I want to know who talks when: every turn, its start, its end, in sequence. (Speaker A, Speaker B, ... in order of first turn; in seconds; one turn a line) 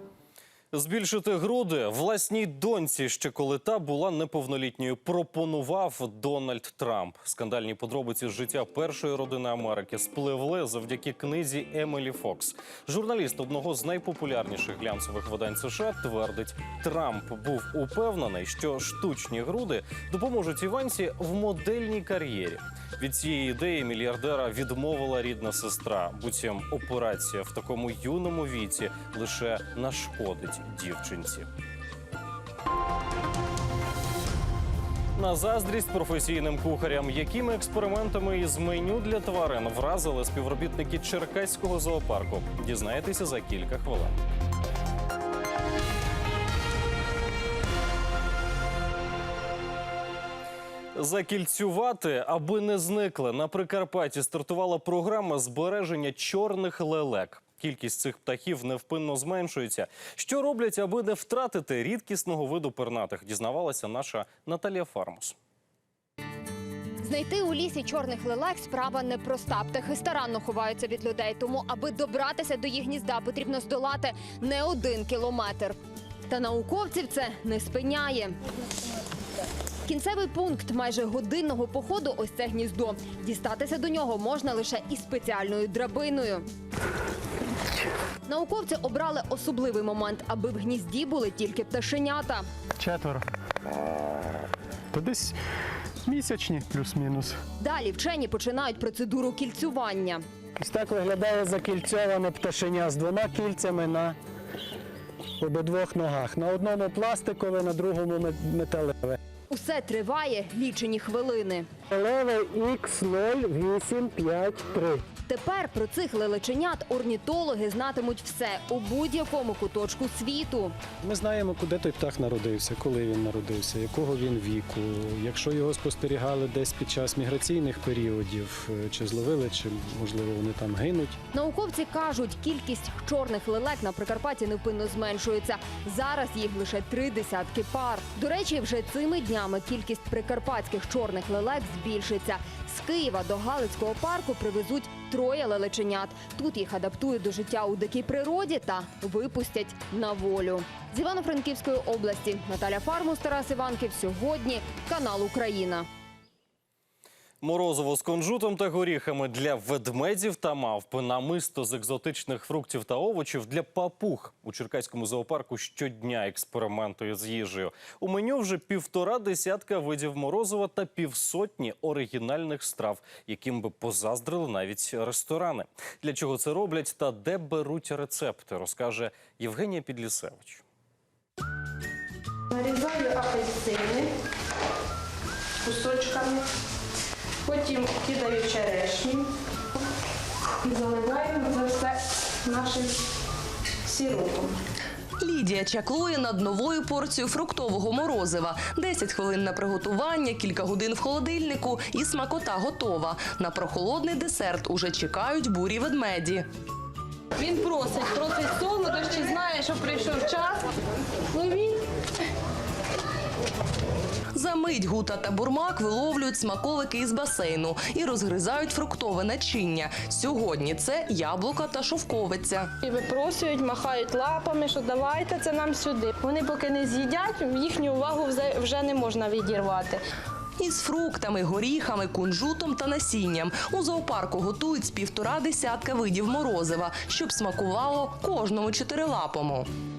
Speaker A: 0.7-31.5
Speaker A: 35.1-44.1
Speaker A: 51.0-65.3
Speaker B: 67.0-75.8
Speaker B: 76.3-78.3
Speaker B: 79.8-86.5
Speaker B: 88.3-92.5
Speaker C: 92.8-93.2
Speaker C: 94.9-95.3
Speaker C: 96.0-97.4
Speaker B: 97.6-100.2
Speaker C: 100.6-104.2
Speaker C: 105.4-109.2
Speaker B: 109.5-111.7
Speaker C: 111.9-115.0
Speaker B: 115.3-120.7
Speaker C: 121.0-131.2
Speaker B: 131.3-155.9
Speaker A: 157.4-180.6
Speaker D: 182.5-184.1
Speaker D: 185.6-186.4
Speaker D: 187.4-189.2
Speaker D: 190.6-192.9
Speaker D: 193.8-194.5
Speaker E: 195.2-206.4
Speaker D: 207.4-210.6
Speaker D: 211.3-211.8
Speaker E: 214.3-222.7
Speaker D: 222.8-230.0
Speaker E: 230.6-239.7